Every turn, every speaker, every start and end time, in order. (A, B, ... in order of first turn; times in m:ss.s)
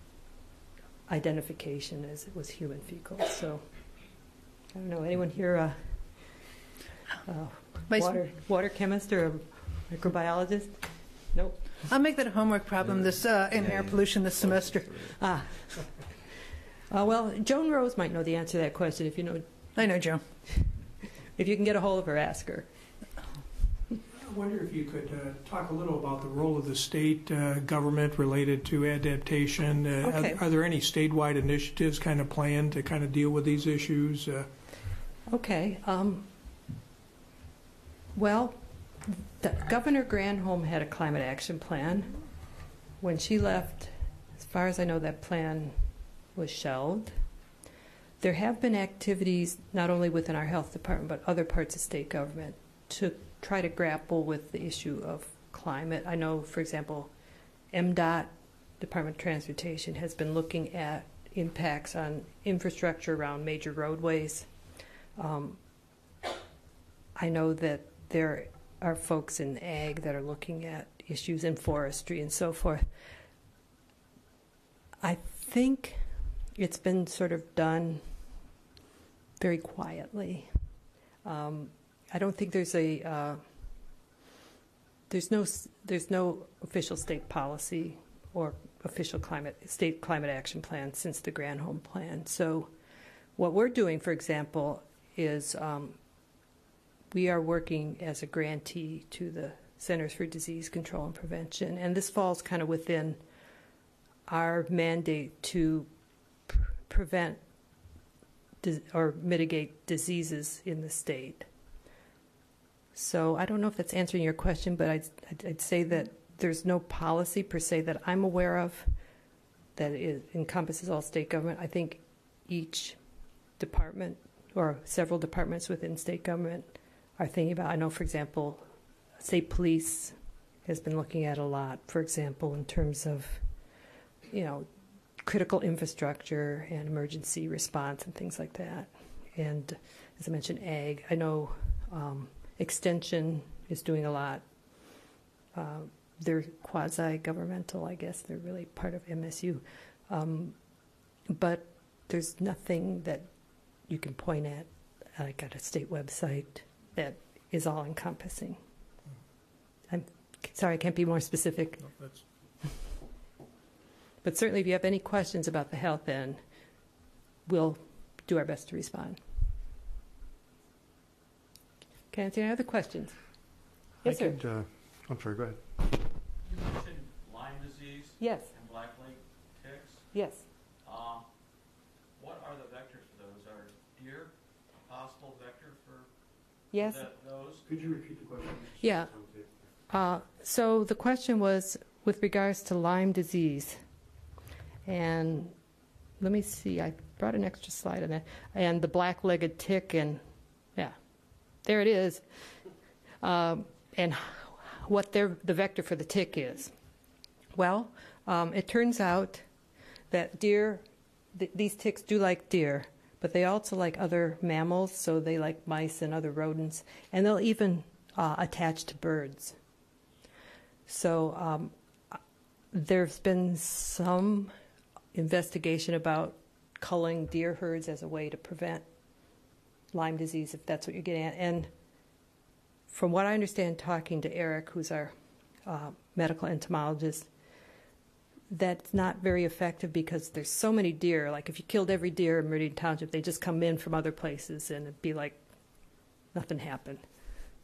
0:01.1-0:03.6 A
0:04.7-0:06.0 A
0:07.2-0:10.8 A
0:07.9-0:08.2 B
0:11.3-0:11.7 A
0:11.8-0:15.1 B
0:15.2-0:16.0 A
0:16.9-0:19.4 A
0:19.8-0:20.2 B
0:21.4-0:22.7 A
0:24.1-0:34.5 C
0:30.0-0:30.4 A
0:35.3-0:36.3 A
0:38.1-0:42.1 A
0:43.0-0:45.8 A
0:46.3-0:47.1 A
0:48.2-0:57.1 A
0:57.7-1:04.5 A
1:05.2-1:05.6 A
1:07.2-1:12.9 A
1:15.0-1:16.0 A
1:16.6-1:18.0 A
1:19.4-1:20.5 A
1:21.2-1:23.4 A
1:25.1-1:32.7 A
1:33.4-1:36.0 A
1:37.1-1:43.2 A
1:44.3-1:45.9 A
1:46.5-1:47.4 A
1:48.6-1:51.5 A
1:53.0-1:58.9 A
1:59.8-2:03.0 A
2:03.6-2:08.6 A
2:09.2-2:10.1 A
2:10.6-2:13.4 A
2:14.3-2:14.7 A
2:15.2-2:24.4 A
2:25.5-2:30.5 A
2:31.3-2:33.3 A
2:33.9-2:38.6 A
2:39.9-2:41.9 A
2:41.9-2:42.2 C
2:44.2-2:46.4 A
2:47.4-2:49.2 A
2:52.1-2:53.2 A
2:54.0-2:55.6 D
2:54.0-2:54.4 A
2:56.4-3:00.1 E
2:58.2-2:58.5 A
3:00.1-3:00.4 A
3:00.8-3:01.3 E
3:02.2-3:04.3 E
3:04.8-3:06.1 E
3:06.7-3:07.0 A
3:06.7-3:08.0 E
3:07.6-3:09.5 D
3:08.8-3:09.1 A
3:09.9-3:13.8 A
3:14.8-3:15.5 A
3:16.2-3:20.2 A
3:21.6-3:22.2 A
3:23.2-3:26.7 A
3:27.5-3:29.4 A
3:30.1-3:30.8 A
3:31.3-3:39.6 A
3:40.9-3:42.2 A
3:42.7-3:44.5 A
3:45.1-3:48.8 A
3:49.9-3:51.7 A
3:52.9-3:55.1 A
3:55.6-3:57.3 A
3:58.5-4:05.4 A
4:06.3-4:07.0 A